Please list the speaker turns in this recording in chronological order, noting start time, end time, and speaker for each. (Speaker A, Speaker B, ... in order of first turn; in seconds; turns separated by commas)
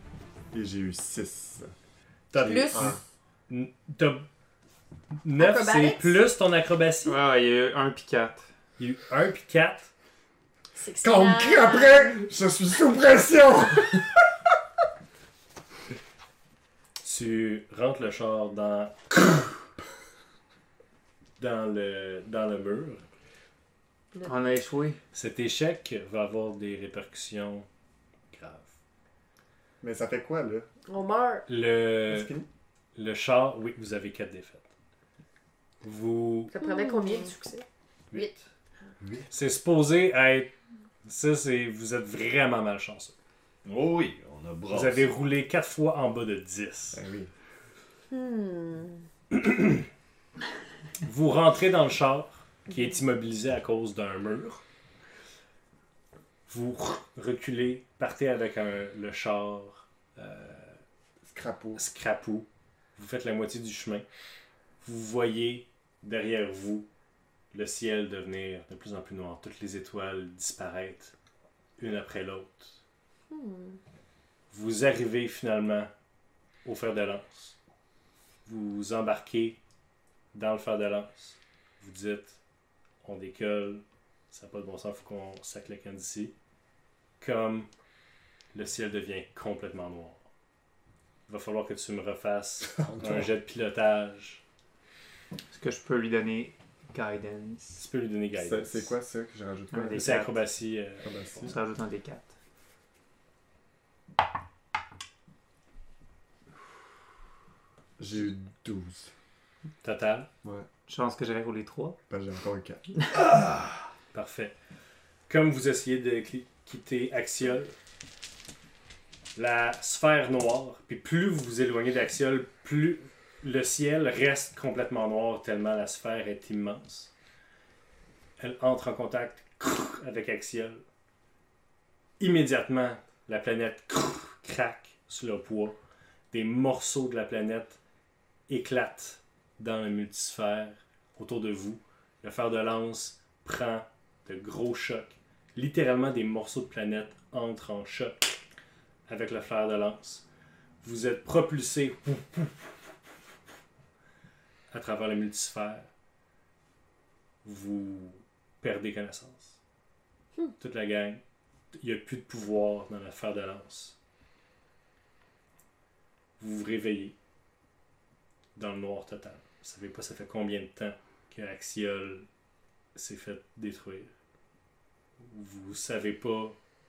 Speaker A: 0.5-1.7, Speaker B: 2.3-3.0, Speaker A: 2.3-3.0, Speaker C: 2.4-2.9, Speaker B: 3.5-4.3, Speaker B: 5.2-7.2, Speaker D: 5.4-6.1, Speaker E: 7.0-8.4, Speaker B: 8.8-9.9, Speaker D: 10.8-12.2, Speaker A: 11.0-14.1, Speaker B: 17.0-19.6, Speaker B: 21.4-23.1, Speaker E: 24.2-25.0, Speaker B: 25.1-27.7, Speaker B: 28.3-28.7, Speaker A: 29.8-30.6, Speaker C: 30.9-31.4, Speaker B: 31.5-32.3, Speaker A: 32.1-32.5, Speaker B: 32.9-34.6, Speaker B: 35.8-36.5, Speaker C: 36.5-37.6, Speaker D: 36.6-37.4, Speaker B: 38.1-38.4, Speaker A: 39.0-39.3, Speaker B: 39.3-40.5, Speaker B: 41.0-43.1, Speaker F: 43.6-45.1, Speaker B: 44.7-47.0, Speaker A: 46.9-47.3, Speaker D: 48.1-49.0, Speaker B: 49.3-49.8, Speaker B: 51.0-54.6, Speaker B: 56.5-60.8, Speaker A: 61.3-61.8, Speaker B: 61.8-64.0, Speaker B: 64.8-66.9, Speaker B: 67.5-71.1, Speaker B: 71.8-72.8, Speaker D: 73.3-73.8, Speaker B: 74.5-75.9, Speaker B: 76.6-77.5, Speaker B: 78.5-79.6, Speaker B: 80.3-82.4, Speaker B: 83.0-86.3, Speaker B: 87.2-87.7, Speaker B: 88.5-90.2, Speaker B: 91.3-94.4, Speaker A: 92.7-93.3, Speaker E: 95.5-97.8, Speaker B: 97.8-98.9, Speaker A: 98.4-100.1, Speaker E: 99.7-100.4, Speaker B: 99.9-101.5, Speaker A: 101.0-101.6, Speaker E: 101.4-102.3, Speaker A: 108.0-109.1, Speaker B: 109.8-110.3, Speaker E: 110.9-112.0, Speaker A: 112.1-112.8, Speaker F: 113.3-113.7, Speaker B: 114.1-114.5, Speaker B: 115.3-117.7, Speaker B: 119.3-127.1, Speaker B: 128.4-130.8, Speaker B: 132.2-135.8, Speaker B: 136.3-137.8, Speaker B: 138.5-148.4, Speaker B: 149.1-150.2, Speaker B: 150.8-152.8, Speaker B: 154.7-155.9, Speaker B: 157.4-159.6, Speaker B: 160.6-161.2, Speaker B: 161.7-163.9, Speaker B: 166.4-167.1, Speaker B: 168.5-172.3, Speaker B: 172.9-174.1, Speaker B: 175.2-176.6